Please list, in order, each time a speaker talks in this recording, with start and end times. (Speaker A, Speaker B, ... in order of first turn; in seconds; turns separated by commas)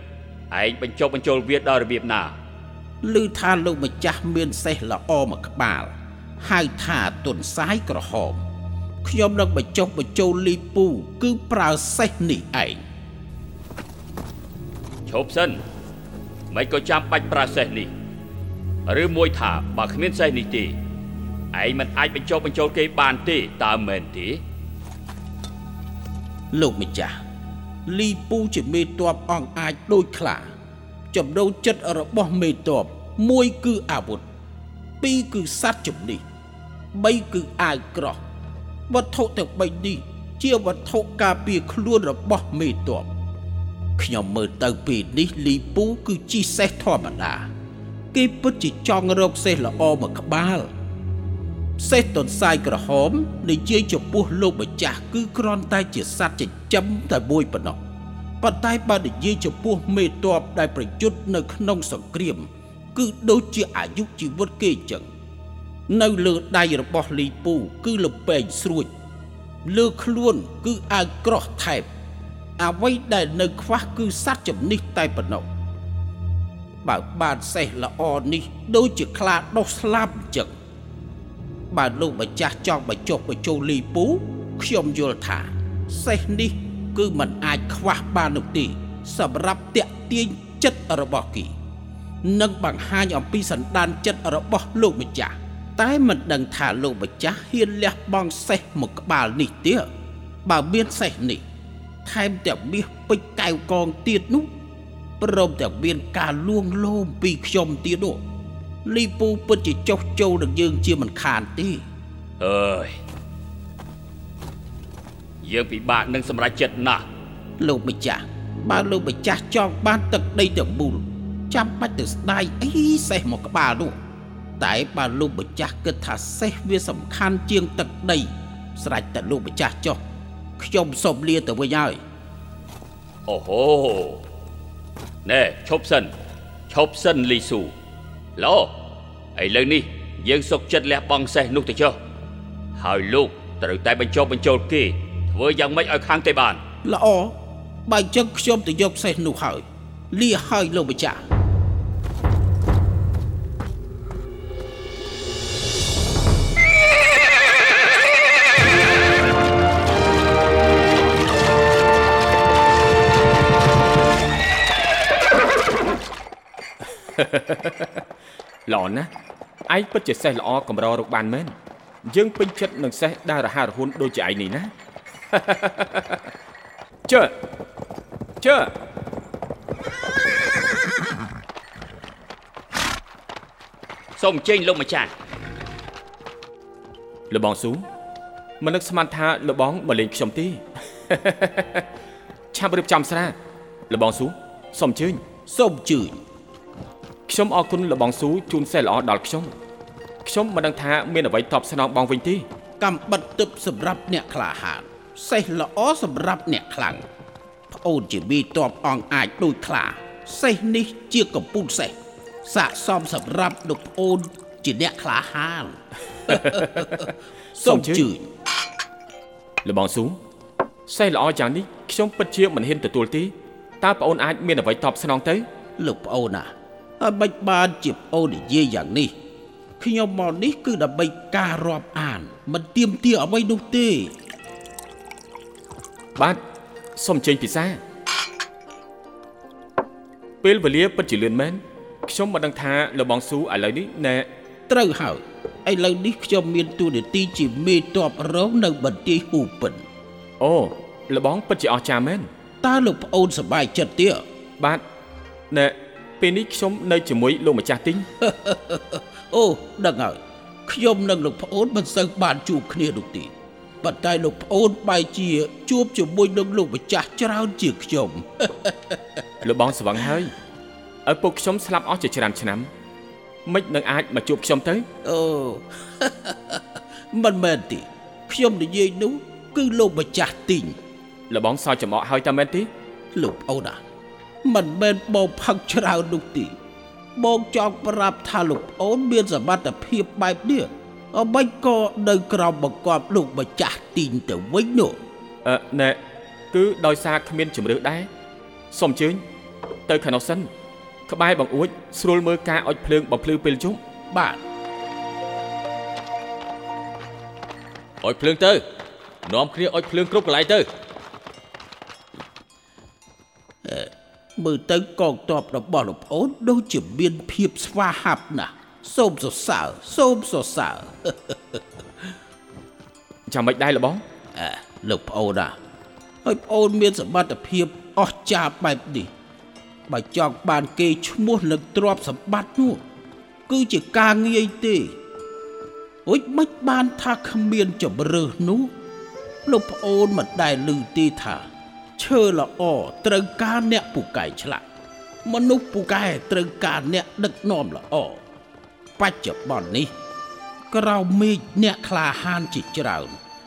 Speaker A: 0.5-2.3, Speaker B: 3.0-8.4, Speaker B: 9.0-12.8, Speaker A: 15.1-15.6, Speaker A: 16.5-17.9, Speaker A: 18.9-20.7, Speaker A: 21.5-24.4, Speaker B: 26.5-27.1, Speaker B: 27.9-30.5, Speaker B: 31.1-34.2, Speaker B: 35.0-36.2, Speaker B: 36.9-38.2, Speaker B: 38.9-43.1, Speaker B: 44.0-47.5, Speaker B: 48.1-50.7, Speaker B: 51.8-57.8, Speaker B: 58.4-65.1, Speaker B: 65.9-68.9, Speaker B: 69.7-71.9, Speaker B: 72.6-75.5, Speaker B: 76.8-80.5, Speaker B: 81.7-91.5, Speaker B: 92.2-99.9, Speaker B: 100.4-101.4, Speaker B: 102.0-104.5, Speaker B: 105.2-108.2, Speaker B: 108.8-111.8, Speaker A: 112.4-113.0, Speaker A: 115.4-117.0, Speaker B: 117.6-124.0, Speaker B: 124.6-130.0, Speaker B: 130.6-132.0, Speaker A: 133.3-134.2, Speaker A: 135.2-136.1, Speaker A: 136.7-137.7, Speaker A: 138.4-138.7, Speaker A: 139.3-142.0, Speaker A: 142.8-146.6, Speaker B: 146.8-147.3, Speaker B: 147.9-151.2, Speaker C: 167.2-168.0, Speaker C: 168.7-169.1, Speaker C: 169.7-171.5, Speaker C: 172.1-174.7, Speaker C: 175.3-176.2, Speaker C: 177.1-177.3, Speaker C: 178.4-178.7, Speaker A: 184.2-185.1, Speaker C: 187.3-187.8, Speaker C: 188.6-191.8, Speaker C: 192.5-193.3, Speaker C: 193.9-195.2, Speaker B: 195.5-196.2, Speaker C: 197.3-199.5, Speaker C: 200.2-202.4, Speaker B: 202.8-207.0, Speaker B: 207.7-218.3, Speaker C: 216.3-218.0, Speaker C: 219.6-220.2, Speaker C: 220.9-225.5, Speaker B: 225.8-229.1, Speaker B: 229.8-234.1, Speaker C: 236.9-237.8, Speaker C: 240.4-244.3, Speaker B: 244.7-249.8, Speaker C: 250.4-252.3, Speaker B: 252.6-254.2, Speaker C: 255.5-258.1, Speaker B: 258.2-269.2, Speaker C: 269.4-270.3, Speaker C: 271.0-272.7, Speaker C: 273.4-274.9, Speaker B: 275.0-280.8, Speaker C: 281.3-282.7, Speaker B: 283.1-283.8, Speaker B: 284.4-286.5, Speaker B: 287.1-295.0, Speaker C: 295.4-296.0, Speaker C: 296.5-298.1, Speaker C: 298.7-299.2, Speaker C: 299.9-300.5, Speaker C: 301.1-303.8, Speaker B: 304.1-304.4, Speaker D: 308.0-308.6, Speaker D: 309.2-310.7, Speaker B: 313.6-322.1, Speaker C: 323.3-324.0, Speaker B: 324.3-325.6, Speaker B: 326.2-329.1, Speaker B: 329.9-332.8, Speaker B: 333.5-334.9, Speaker B: 336.1-338.7, Speaker B: 339.4-344.6, Speaker B: 345.2-348.2, Speaker B: 349.0-349.9, Speaker B: 350.7-353.2